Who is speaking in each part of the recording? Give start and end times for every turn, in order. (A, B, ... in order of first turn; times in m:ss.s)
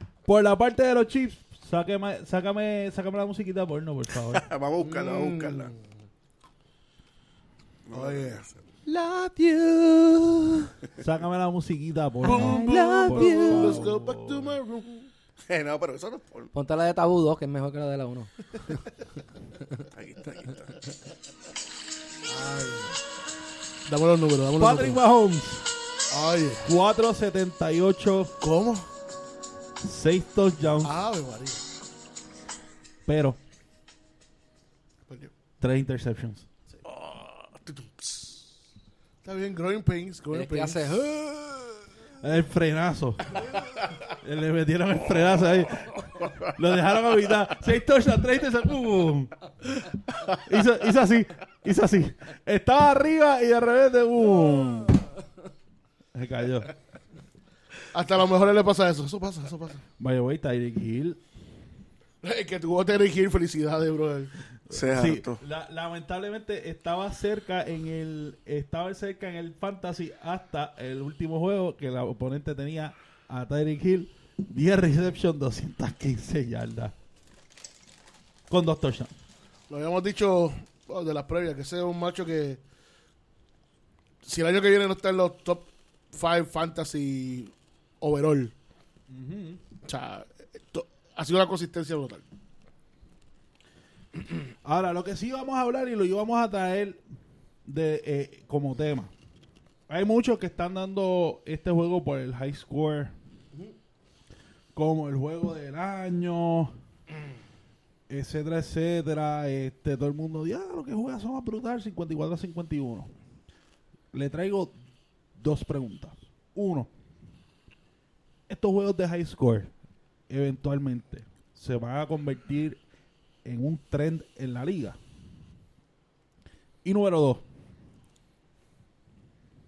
0:00.2-0:04.4 A
0:04.3-0:05.7 B
0:04.8-0:05.8 C
0:07.9-0:08.5 B
0:07.9-0:08.4 C
0:08.8-0:10.7 D
0:11.0-0:14.5 A
0:12.2-0:13.8 D
0:12.2-0:15.1 C
0:15.5-0:16.5 B
0:16.5-0:18.3 D
0:19.8-0:20.8 B
0:22.3-0:23.0 C
0:23.8-0:25.0 C
0:24.6-0:25.7 A
0:26.1-0:26.7 C
0:26.6-0:28.4 A
0:28.4-0:28.9 C
0:29.8-0:31.0 A
0:30.8-0:31.6 C
0:33.0-0:33.4 A
0:35.1-0:35.3 C
0:35.6-0:36.5 A
0:36.9-0:37.5 B
0:37.6-0:38.4 C
0:39.2-0:41.1 C
0:40.3-0:41.2 D
0:42.2-0:43.4 A
0:44.1-0:49.5 A
0:50.3-0:55.1 A
0:56.1-0:56.7 A
0:57.9-0:59.8 C
1:00.0-1:01.2 A
1:02.2-1:04.3 C
1:04.7-1:16.9 A
1:04.7-1:05.4 B
1:18.5-1:19.1 A
1:19.7-1:22.6 C
1:24.2-1:28.5 C
1:29.1-1:29.6 A
1:29.8-1:32.2 C
1:34.6-1:37.0 A
1:37.7-1:39.1 A
1:39.9-1:43.1 A
1:44.7-1:46.7 A
1:48.1-1:53.1 A
1:54.1-1:54.7 A
1:55.4-1:56.9 A
1:58.5-1:59.7 A
2:00.3-2:02.8 A
2:03.4-2:05.0 A
2:06.8-2:07.4 A